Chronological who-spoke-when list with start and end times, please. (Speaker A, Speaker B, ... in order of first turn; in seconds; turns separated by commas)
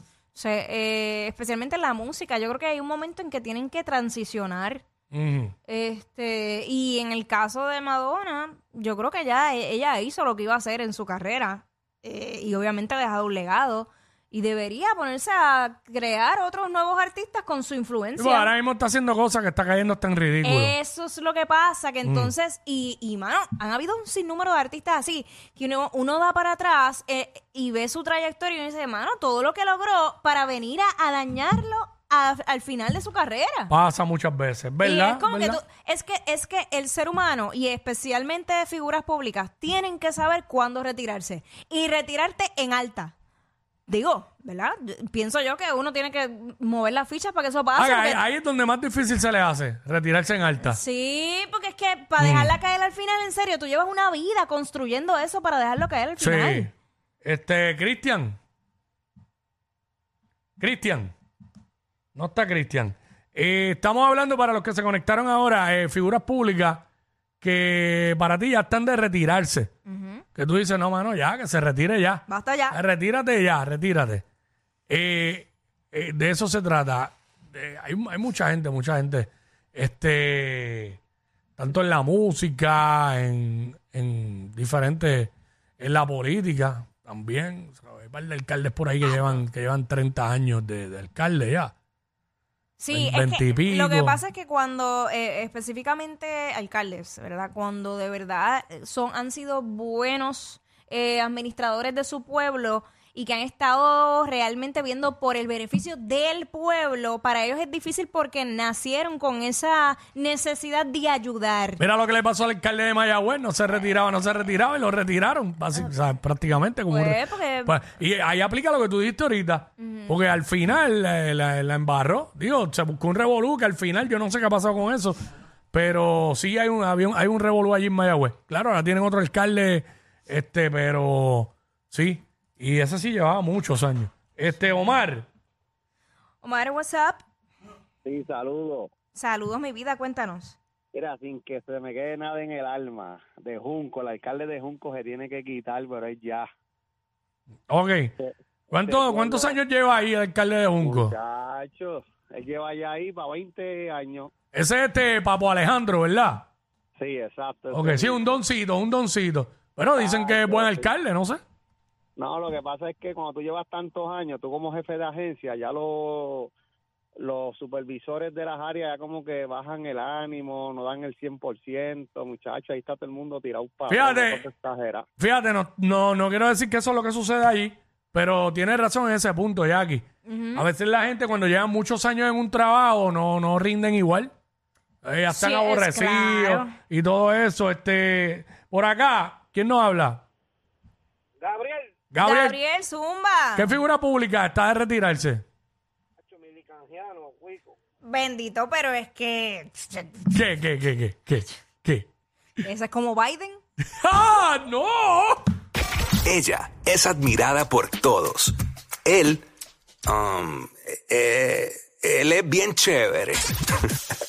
Speaker A: 0.3-4.8, Speaker B: 5.1-5.5, Speaker A: 5.7-18.5, Speaker B: 18.2-20.7, Speaker A: 20.4-33.7, Speaker B: 22.1-22.3, Speaker B: 33.7-35.6, Speaker A: 34.8-43.1, Speaker A: 43.9-48.2, Speaker B: 47.8-50.8, Speaker A: 50.6-56.7, Speaker B: 52.2-52.5, Speaker B: 56.2-56.7, Speaker B: 57.2-58.4, Speaker B: 60.6-61.1, Speaker B: 62.1-66.8, Speaker B: 67.4-69.7, Speaker A: 69.9-70.2, Speaker B: 70.3-74.2, Speaker A: 72.3-72.8, Speaker B: 74.9-81.0, Speaker B: 81.6-91.7, Speaker A: 92.8-111.8, Speaker B: 92.9-94.2, Speaker B: 111.8-125.2, Speaker A: 116.9-117.8, Speaker A: 119.8-120.1, Speaker B: 125.7-135.3, Speaker A: 136.4-137.2, Speaker C: 138.1-138.9, Speaker A: 139.1-140.6, Speaker C: 140.9-146.5, Speaker B: 147.7-148.2, Speaker C: 148.2-149.6, Speaker B: 148.7-151.1, Speaker C: 150.8-154.3, Speaker B: 154.5-156.5, Speaker C: 157.0-158.4, Speaker B: 157.7-161.4, Speaker C: 160.0-160.9, Speaker C: 162.2-166.5, Speaker C: 167.2-175.1, Speaker B: 173.9-174.4, Speaker B: 175.2-184.3, Speaker A: 180.3-180.7, Speaker B: 185.0-190.2, Speaker A: 185.3-186.7, Speaker D: 191.4-191.9, Speaker B: 192.1-192.6, Speaker A: 192.2-193.7, Speaker B: 193.6-195.4, Speaker D: 196.3-197.8, Speaker A: 198.0-200.2, Speaker B: 200.3-202.1, Speaker A: 202.6-203.6, Speaker B: 203.9-205.4, Speaker E: 206.2-209.4, Speaker E: 210.1-213.5